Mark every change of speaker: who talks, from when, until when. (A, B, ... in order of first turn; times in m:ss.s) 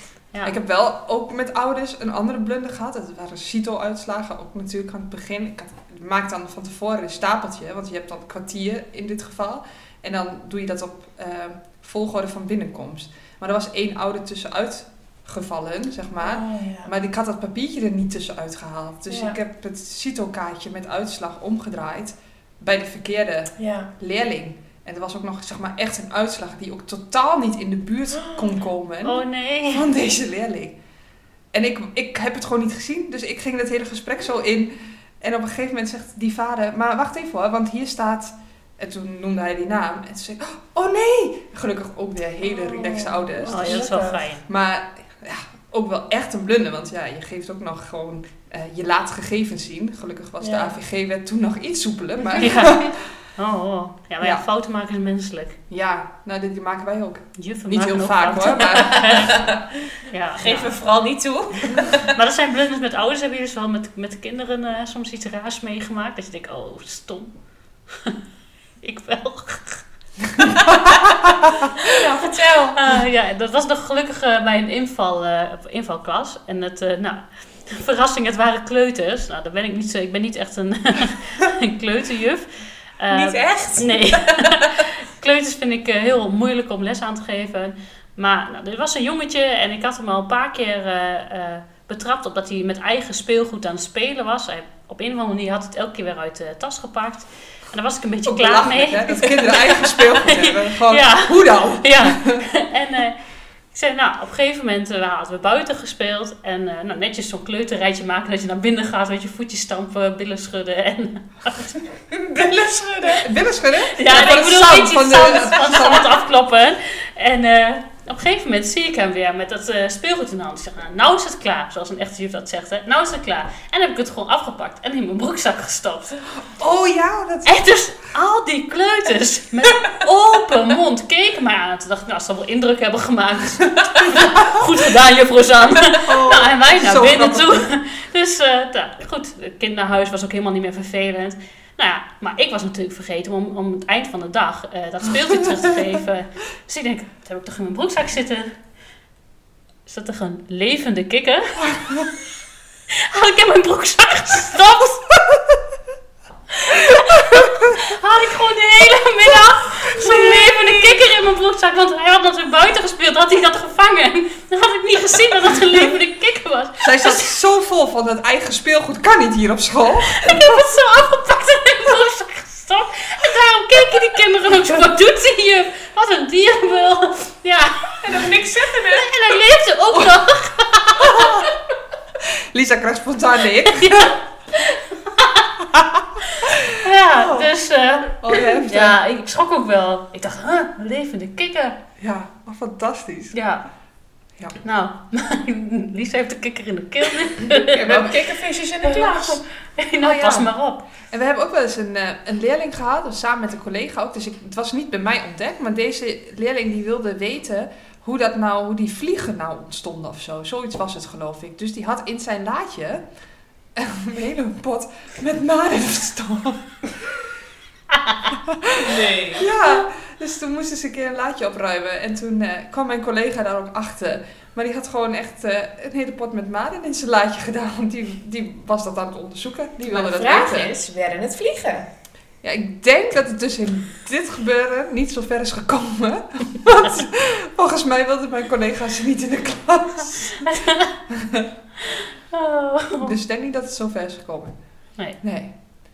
0:00.4-0:30.8 A
0:16.2-0:16.9 B
0:19.1-0:19.4 B
0:23.6-0:23.9 B
0:28.1-0:28.6 B
0:29.0-0:29.9 C
0:31.5-0:43.8 A
0:42.5-0:44.3 B
0:43.4-0:44.4 C
0:44.5-0:52.9 A
0:50.4-0:50.8 B
0:52.4-0:55.6 C
0:54.2-0:54.4 A
0:55.7-0:59.2 A
0:57.4-1:00.7 C
0:59.0-0:59.5 B
1:00.4-1:02.1 B
1:02.1-1:07.3 C
1:07.9-1:08.2 C
1:08.8-1:09.8 C
1:10.6-1:10.9 B
1:11.8-1:12.8 B
1:12.7-1:43.2 C
1:23.1-1:24.8 B
1:38.3-1:42.5 A
1:43.7-1:51.8 C
1:52.1-1:53.3 B
1:53.2-1:56.2 A
1:53.9-2:06.2 C
2:06.4-2:07.6 A
2:07.4-2:28.6 C
2:16.0-2:17.7 A
2:29.9-2:32.1 C
2:32.9-2:35.1 C
2:36.5-2:47.3 C
2:40.0-2:40.9 A
2:46.8-2:50.6 A
2:50.2-2:58.2 C
2:58.0-2:59.1 B
2:58.9-3:01.4 C
3:01.0-3:01.5 A
3:02.2-3:04.2 A
3:03.7-3:05.6 C
3:05.7-3:07.5 A
3:06.3-3:11.8 C
3:08.2-3:09.0 A
3:12.0-3:13.4 A
3:13.3-3:13.6 C
3:14.6-3:18.0 C
3:17.5-3:19.4 B
3:17.8-3:18.2 A
3:18.8-3:20.9 C
3:20.0-3:20.5 A
3:21.1-3:33.0 A
3:33.8-3:36.8 A
3:38.3-3:50.7 A
3:38.8-3:39.5 B
3:49.9-3:51.9 B
3:52.4-4:00.3 A
4:00.4-4:01.0 C
4:01.1-4:01.5 A
4:02.3-4:03.1 C
4:03.0-4:04.6 A
4:05.2-4:05.5 A